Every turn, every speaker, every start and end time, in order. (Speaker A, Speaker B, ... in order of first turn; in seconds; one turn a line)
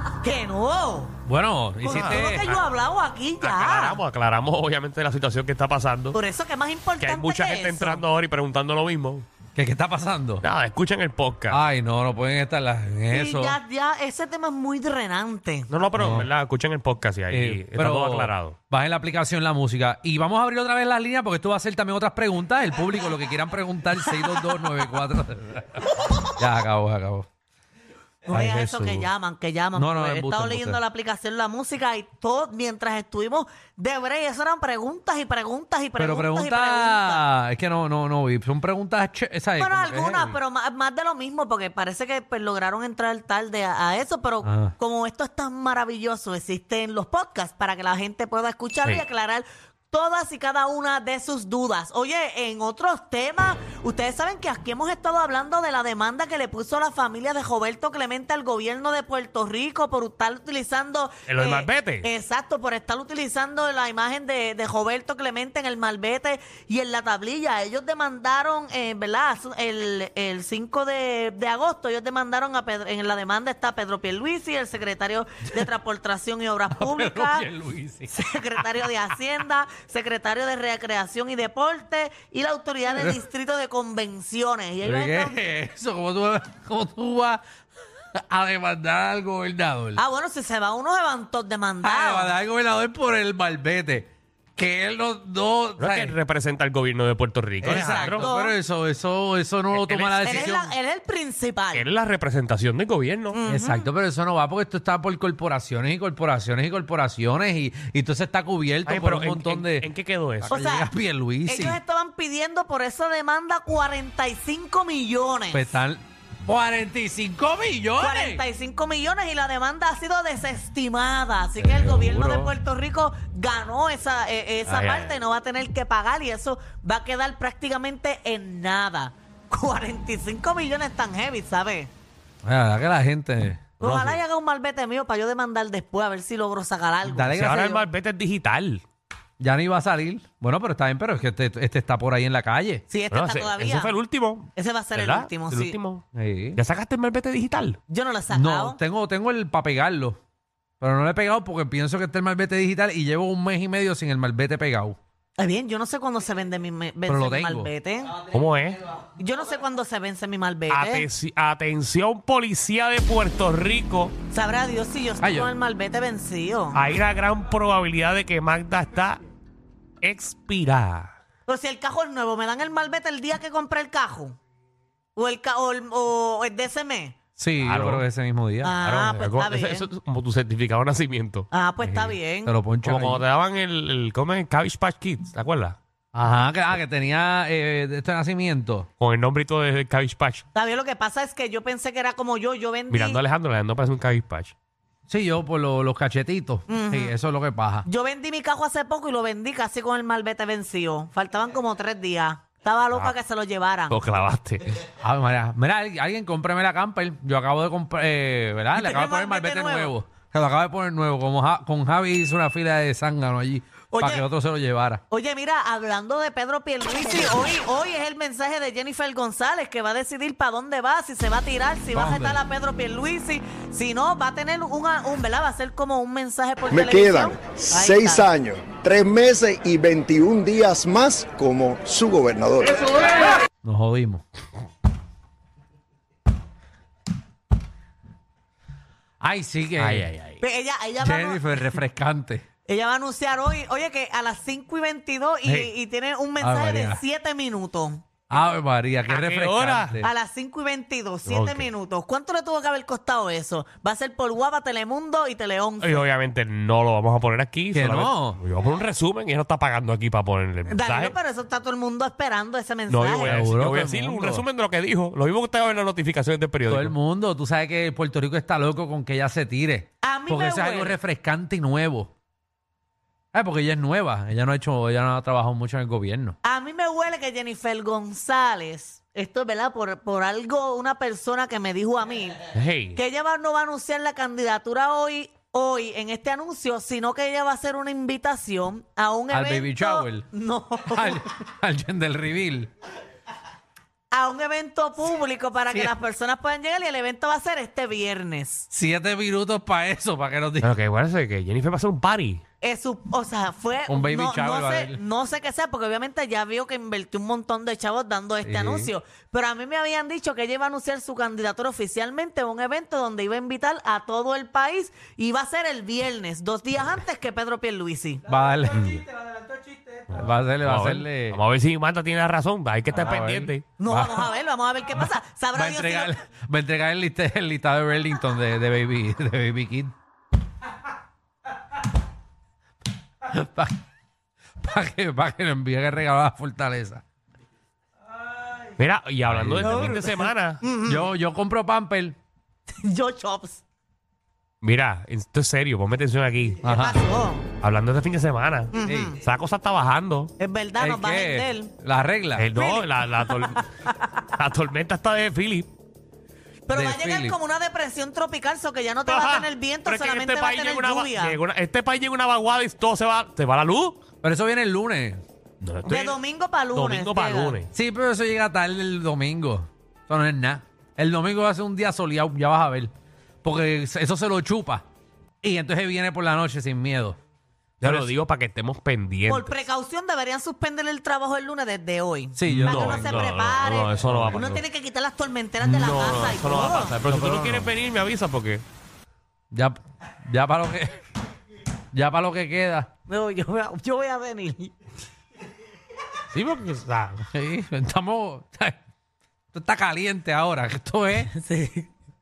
Speaker A: 0.2-1.1
Speaker B: 1.3-2.6
Speaker A: 1.8-4.0
Speaker C: 1.8-2.3
Speaker C: 3.4-6.2
Speaker A: 6.1-8.0
Speaker C: 7.0-9.2
Speaker B: 9.6-10.4
Speaker C: 10.4-11.6
Speaker B: 11.5-13.6
Speaker A: 13.1-15.7
Speaker C: 15.7-18.6
Speaker B: 15.9-16.3
Speaker B: 17.3-27.3
Speaker A: 28.3-37.3
Speaker B: 28.3-29.1
Speaker B: 29.8-30.8
Speaker B: 36.0-40.4
Speaker A: 39.6-77.5
Speaker B: 44.4-44.7
Speaker C: 61.3-62.1
Speaker B: 76.8-79.0
Speaker A: 78.1-85.4
Speaker B: 83.0-83.2
Speaker B: 84.8-87.4
Speaker B: 88.2-90.0
Speaker A: 90.0-92.3
Speaker B: 91.8-96.2
Speaker C: 95.8-98.3
Speaker B: 97.6-100.7
Speaker A: 97.7-98.6
Speaker C: 99.7-100.6
Speaker A: 100.2-101.9
Speaker C: 101.7-103.4
Speaker A: 103.3-103.9
Speaker B: 103.5-109.9
Speaker C: 108.9-110.6
Speaker B: 110.4-111.8
Speaker A: 110.5-110.9
Speaker A: 111.5-115.7
Speaker B: 115.5-118.4
Speaker A: 118.0-131.9
Speaker B: 121.6-122.5
Speaker C: 124.7-125.2
Speaker B: 132.4-133.7
Speaker C: 133.8-134.2
Speaker A: 133.8-137.3
Speaker B: 137.1-137.8
Speaker C: 137.4-138.8
Speaker B: 139.4-142.8
Speaker A: 142.9-143.9
Speaker C: 143.1-146.0
Speaker A: 144.6-145.7
Speaker B: 146.2-146.6
Speaker C: 146.6-147.8
Speaker A: 147.9-148.8
Speaker B: 148.3-150.2
Speaker B: 150.8-155.0
Speaker A: 155.4-158.2
Speaker B: 157.1-157.7
Speaker C: 158.2-158.8
Speaker A: 159.2-161.1
Speaker C: 160.7-164.1
Speaker A: 164.3-166.8
Speaker B: 165.2-165.5
Speaker C: 166.7-169.2
Speaker C: 170.0-171.2
Speaker A: 171.5-174.4
Speaker A: 175.2-177.2
Speaker B: 177.4-178.8
Speaker C: 177.6-178.1
Speaker A: 178.6-179.9
Speaker C: 178.8-181.5
Speaker A: 181.5-182.5
Speaker B: 181.8-183.2
Speaker C: 182.8-185.8
Speaker B: 186.1-188.9
Speaker C: 189.0-190.4
Speaker A: 190.6-193.2
Speaker C: 192.9-194.5
Speaker B: 195.1-197.9
Speaker A: 196.7-197.1
Speaker A: 197.8-204.0
Speaker C: 203.9-204.8
Speaker B: 205.0-215.0
Speaker A: 208.8-209.9
Speaker A: 213.9-214.2
Speaker A: 215.1-228.3
Speaker B: 221.9-222.4
Speaker D: 226.7-232.9
Speaker B: 233.6-234.2
Speaker B: 239.2-240.1
Speaker C: 239.8-240.4
Speaker A: 240.4-241.8
Speaker B: 241.0-242.4
Speaker A: 242.7-248.0
Speaker C: 245.4-245.7
Speaker B: 246.4-247.0
Speaker B: 248.3-250.1
Speaker C: 249.1-249.9
Speaker A: 250.0-256.1
Speaker C: 251.3-251.7
Speaker C: 255.8-261.1
Speaker B: 257.7-258.4
Speaker A: 260.7-263.4
Speaker C: 262.9-266.9
Speaker B: 263.2-264.4
Speaker B: 266.7-272.1
Speaker A: 270.0-271.0
Speaker B: 273.3-276.4
Speaker A: 276.4-291.2
Speaker C: 282.5-283.0
Speaker B: 289.3-290.3
Speaker B: 290.9-292.7
Speaker A: 294.1-298.7
Speaker B: 298.7-300.8
Speaker C: 300.6-302.4
Speaker A: 302.6-318.2
Speaker B: 303.9-305.0
Speaker B: 308.4-308.9
Speaker B: 318.3-319.0
Speaker C: 318.7-319.0
Speaker B: 320.1-321.4
Speaker C: 320.6-323.7
Speaker B: 322.9-324.3
Speaker A: 323.8-326.1
Speaker B: 325.0-329.9
Speaker B: 333.2-333.8
Speaker B: 334.6-337.0
Speaker C: 338.8-340.6
Speaker B: 339.2-340.1
Speaker A: 339.6-341.1
Speaker B: 340.9-342.2
Speaker A: 342.8-343.6
Speaker C: 344.6-346.6
Speaker B: 346.6-347.0
Speaker A: 346.6-347.4
Speaker C: 347.6-350.3
Speaker A: 348.7-349.2
Speaker B: 348.8-349.1
Speaker A: 350.4-351.7
Speaker B: 350.8-352.5
Speaker C: 352.4-353.7
Speaker A: 352.6-354.2
Speaker C: 354.3-355.7
Speaker A: 356.7-361.4
Speaker B: 356.7-357.4
Speaker C: 359.1-364.0
Speaker B: 364.2-365.2
Speaker C: 365.6-366.2
Speaker A: 365.9-367.6
Speaker C: 366.7-367.7
Speaker B: 367.7-372.9
Speaker B: 373.4-374.8
Speaker B: 375.4-377.2
Speaker C: 377.8-379.6
Speaker B: 377.8-378.1
Speaker A: 379.3-387.0
Speaker B: 382.4-383.3
Speaker C: 382.5-384.6
Speaker B: 384.0-384.6
Speaker C: 385.6-388.6
Speaker B: 387.1-387.7
Speaker B: 389.5-391.0
Speaker B: 391.9-392.9
Speaker A: 393.1-394.7
Speaker C: 396.3-397.3
Speaker B: 397.3-398.8
Speaker B: 399.5-401.3
Speaker A: 401.3-401.9